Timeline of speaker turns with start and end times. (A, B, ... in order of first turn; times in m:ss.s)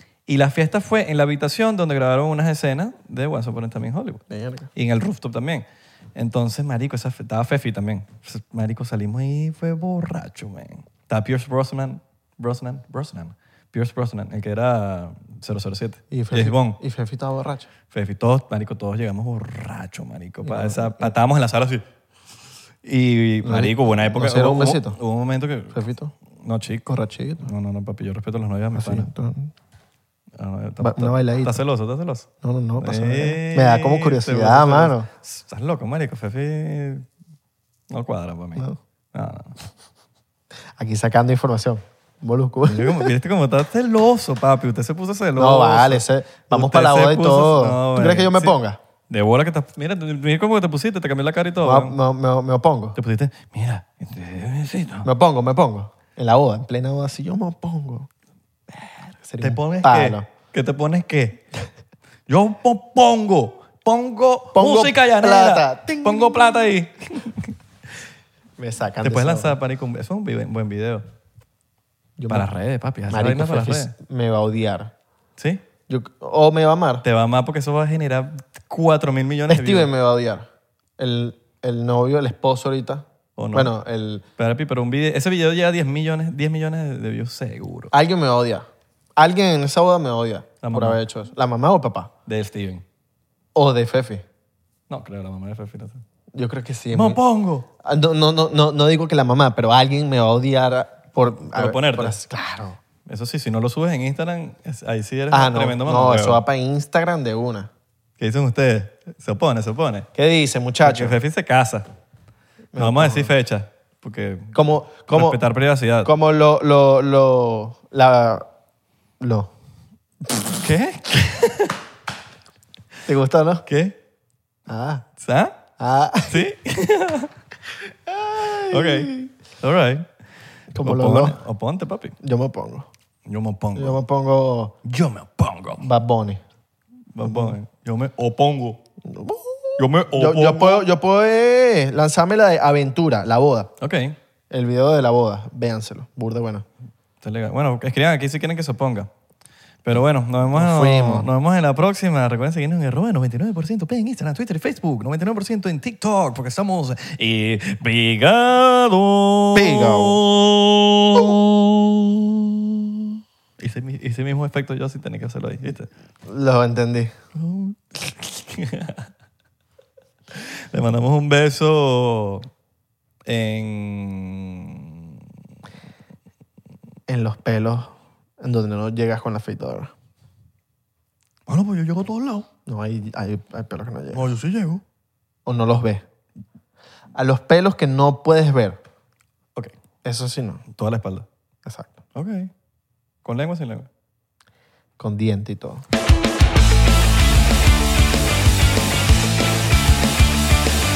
0:00.3-0:04.2 A
0:04.3-0:04.7 B
0:04.8-0:16.8 A
0:16.1-0:17.7 B
0:17.9-0:21.8 A
0:20.4-0:21.2 B
0:22.8-0:25.8 A
0:23.4-0:25.0 B
0:25.7-0:26.1 B
0:26.4-0:26.9 A
0:26.9-0:27.5 B
0:27.4-0:29.1 A
0:28.8-0:29.5 B
0:30.4-0:37.1 A
0:30.8-0:31.6 B
0:32.4-0:35.1 B
0:37.9-0:39.6 A
0:40.8-0:43.1 B
0:42.7-0:48.6 A
0:45.4-0:48.8 B
0:49.1-0:52.0 A
0:51.6-0:53.0 B
0:53.0-0:55.1 A
0:55.0-0:58.1 B
0:58.7-1:01.4 A
0:59.2-1:00.3 B
1:02.3-1:07.5 A
1:04.5-1:06.7 B
1:08.6-1:09.6 B
1:09.0-1:11.0 A
1:12.2-1:12.5 B
1:12.3-1:13.9 A
1:13.1-1:14.9 B
1:15.4-1:15.6 A
1:15.9-1:17.0 B
1:17.0-1:19.9 A
1:19.5-1:20.5 B
1:21.0-1:24.2 B
1:23.4-1:23.8 A
1:24.4-1:27.9 A
1:27.9-1:32.1 B
1:30.6-1:31.0 A
1:32.3-1:32.8 A
1:33.6-1:34.2 B
1:34.9-1:36.0 A
1:36.3-1:37.2 B
1:36.9-1:37.7 A
1:37.8-1:42.8 B
1:41.4-1:42.2 A
1:43.1-1:46.4 A
1:45.3-1:47.7 B
1:48.2-1:50.1 A
1:50.2-1:51.2 B
1:50.8-1:51.9 A
1:52.7-1:53.3 B
1:52.8-1:54.6 A
1:54.5-1:55.4 B
1:55.1-1:56.1 A
1:56.0-1:58.5 B
1:59.2-1:59.5 B
2:00.6-2:01.8 A
2:03.1-2:03.7 B
2:03.7-2:04.0 A
2:04.7-2:05.1 B
2:05.2-2:05.6 A
2:05.8-2:06.4 B
2:06.3-2:07.3 A
2:08.1-2:09.3 B
2:08.7-2:10.1 A
2:10.7-2:11.4 B
2:10.8-2:12.2 A
2:12.2-2:12.9 B
2:13.3-2:14.0 A
2:13.8-2:14.8 B
2:14.8-2:15.9 A
2:15.8-2:16.4 B
2:17.1-2:18.8 A
2:17.2-2:17.6 B
2:19.0-2:23.7 B
2:19.8-2:20.9 A
2:23.8-2:24.2 A
2:24.5-2:26.7 B
2:27.2-2:29.1 A
2:29.8-2:45.9 A
2:30.6-2:31.3 B
2:39.6-2:40.2 B
2:46.3-2:47.2 B
2:47.4-2:49.1 A
2:50.3-2:52.5 A
2:53.3-2:54.9 A
2:57.1-2:59.9 B
3:01.5-3:02.5 A
3:02.7-3:04.3 B
3:04.1-3:04.8 A
3:05.5-3:06.0 B
3:07.1-3:08.8 B
3:10.0-3:10.6 B
3:10.7-3:11.3 A
3:11.6-3:12.0 B
3:12.2-3:12.5 A
3:13.2-3:13.9 A
3:15.0-3:15.8 B